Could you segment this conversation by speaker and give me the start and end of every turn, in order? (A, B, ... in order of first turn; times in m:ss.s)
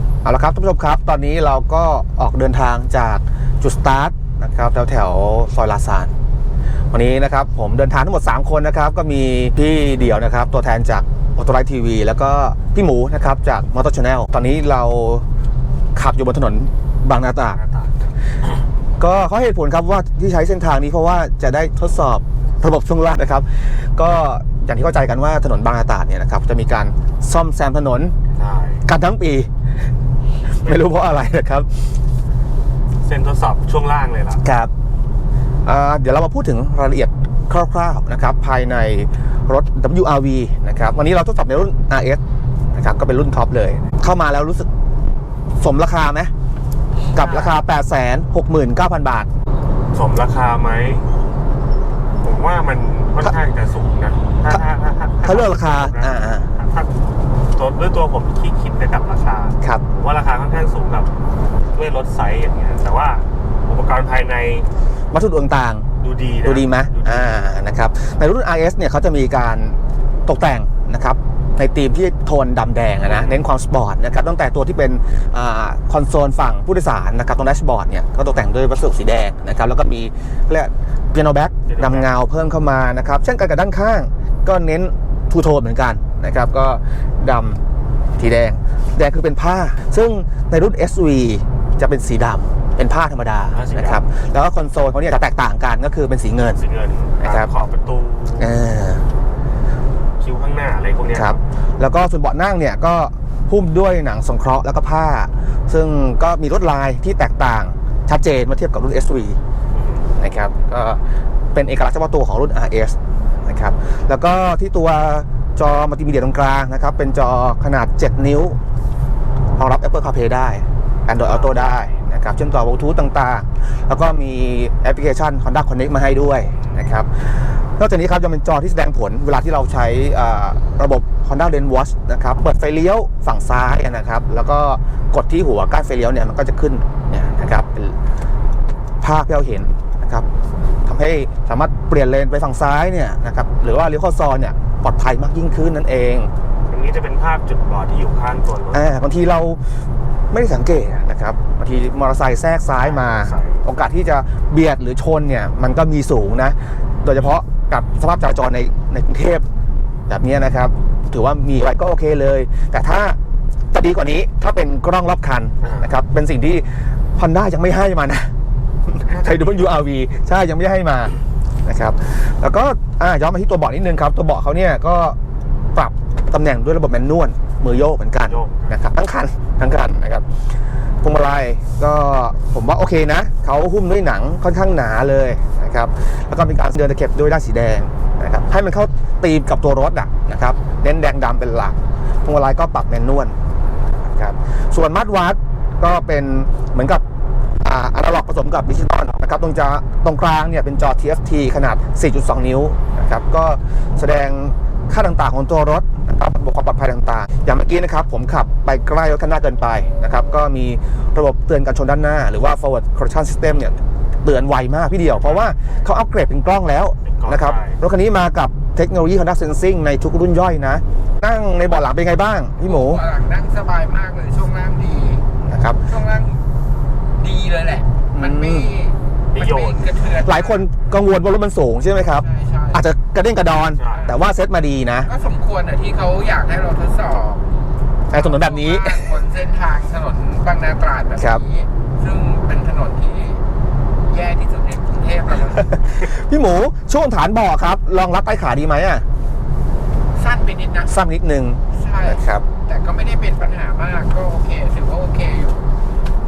0:00.2-0:06.1 A
0:06.9-0:15.2 A
0:15.9-0:17.6 A
0:17.5-0:18.1 B
0:19.0-0:28.1 A
0:28.3-0:28.8 B
0:28.8-0:29.5 A
0:30.6-0:31.7 A
0:33.0-0:34.4 B
0:34.4-0:34.7 A
0:35.6-0:42.2 A
0:42.7-0:44.7 A
0:45.6-0:46.3 A
0:47.1-0:49.3 A
0:47.1-0:47.6 B
0:49.9-0:51.1 B
0:52.2-0:56.9 B
0:55.2-0:56.5 A
0:57.5-1:01.1 B
1:01.7-1:04.7 B
1:05.1-1:05.9 A
1:06.0-1:07.5 B
1:06.4-1:27.6 A
1:13.0-1:13.4 B
1:21.7-1:22.1 B
1:28.2-1:36.6 A
1:33.5-1:34.0 B
1:36.5-1:38.6 B
1:37.2-1:37.5 A
1:38.4-1:39.1 A
1:40.2-1:41.4 B
1:41.1-1:49.4 A
1:49.7-1:50.1 B
1:50.2-1:51.0 A
1:51.5-1:58.6 A
1:59.6-2:07.1 A
2:01.2-2:01.7 B
2:07.8-2:18.0 A
2:19.0-2:20.3 A
2:20.8-2:26.3 A
2:26.7-2:29.0 B
2:28.7-2:29.6 A
2:30.3-2:39.4 A
2:32.8-2:33.6 B
2:40.1-2:43.2 A
2:43.7-2:48.3 A
2:45.6-2:45.9 B
2:48.9-2:55.2 A
2:49.1-2:49.9 B
2:55.7-3:00.2 A
2:58.3-2:58.8 B
3:01.0-3:13.3 A
3:14.1-3:17.0 A
3:17.6-3:43.0 A
3:35.1-3:35.9 B
3:37.0-3:37.8 B
3:42.6-3:45.2 C
3:45.4-3:45.8 A
3:45.8-3:46.4 C
3:47.2-3:50.6 C
3:48.1-3:48.7 A
3:49.3-3:50.0 B
3:50.2-3:55.1 A
3:52.1-3:52.8 C
3:53.7-3:54.1 B
3:53.9-3:54.2 C
3:55.0-3:57.5 C
3:58.1-3:59.1 A
3:58.1-4:03.4 C
4:01.2-4:01.4 A
4:04.0-4:05.7 C
4:05.5-4:09.0 A
4:10.1-4:10.9 C
4:10.9-4:12.4 A
4:11.7-4:15.7 C